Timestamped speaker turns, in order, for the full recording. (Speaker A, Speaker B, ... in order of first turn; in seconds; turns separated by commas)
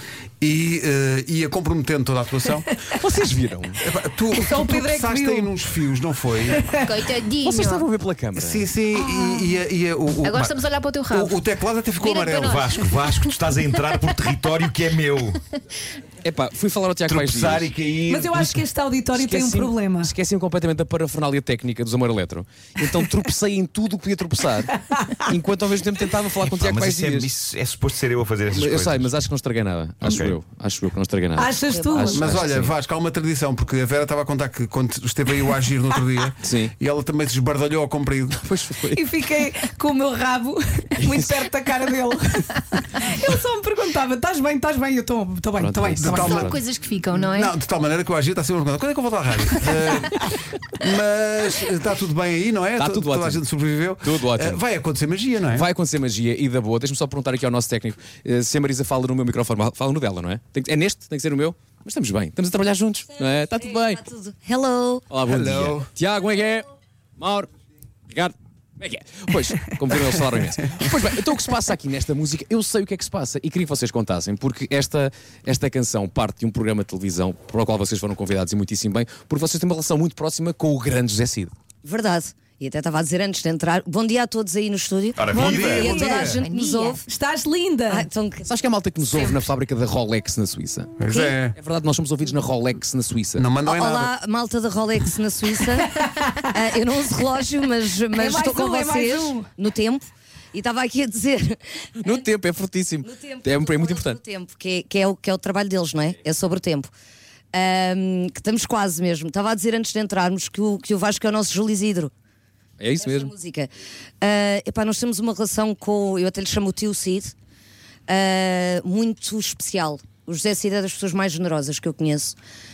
Speaker A: 0.4-2.7, Speaker B: 2.9-3.8, Speaker A: 3.8-6.8, Speaker C: 4.3-5.6, Speaker D: 6.7-7.8, Speaker B: 7.4-8.7, Speaker A: 8.3-12.6, Speaker D: 9.2-9.5, Speaker D: 10.2-11.4, Speaker D: 12.0-13.3, Speaker E: 12.4-15.4, Speaker B: 16.2-17.7, Speaker E: 17.1-18.4, Speaker C: 18.1-20.1, Speaker B: 18.3-18.6, Speaker B: 19.1-27.3, Speaker E: 26.4-29.2, Speaker B: 28.5-32.7, Speaker E: 30.0-30.4, Speaker C: 31.3-32.2, Speaker F: 31.6-32.4, Speaker A: 32.1-38.4, Speaker B: 36.4-36.7, Speaker B: 38.4-39.0, Speaker C: 38.9-46.1, Speaker B: 41.0-41.3, Speaker B: 45.6-46.6, Speaker A: 46.0-46.6, Speaker D: 46.0-47.5, Speaker A: 47.1-55.7, Speaker B: 52.8-53.4, Speaker B: 54.0-54.6, Speaker B: 55.5-64.0, Speaker F: 63.1-65.0, Speaker B: 65.1-67.5, Speaker A: 65.3-65.8, Speaker E: 65.4-65.7, Speaker B: 68.1-81.5, Speaker F: 81.8-87.0, Speaker E: 85.2-86.0, Speaker C: 85.3-86.3, Speaker A: 85.3-86.4, Speaker D: 86.3-87.0, Speaker C: 87.0-88.1, Speaker F: 87.9-88.5, Speaker B: 88.5-90.9, Speaker A: 91.0-91.5, Speaker F: 91.1-91.4, Speaker B: 91.5-93.5, Speaker A: 93.3-94.1, Speaker F: 93.6-102.2, Speaker C: 95.8-96.5, Speaker C: 98.1-99.5, Speaker B: 102.0-104.2, Speaker F: 103.0-106.9, Speaker F: 107.5-112.1, Speaker B: 112.8-113.3, Speaker F: 113.0-113.7, Speaker F: 114.2-117.3, Speaker F: 118.1-122.3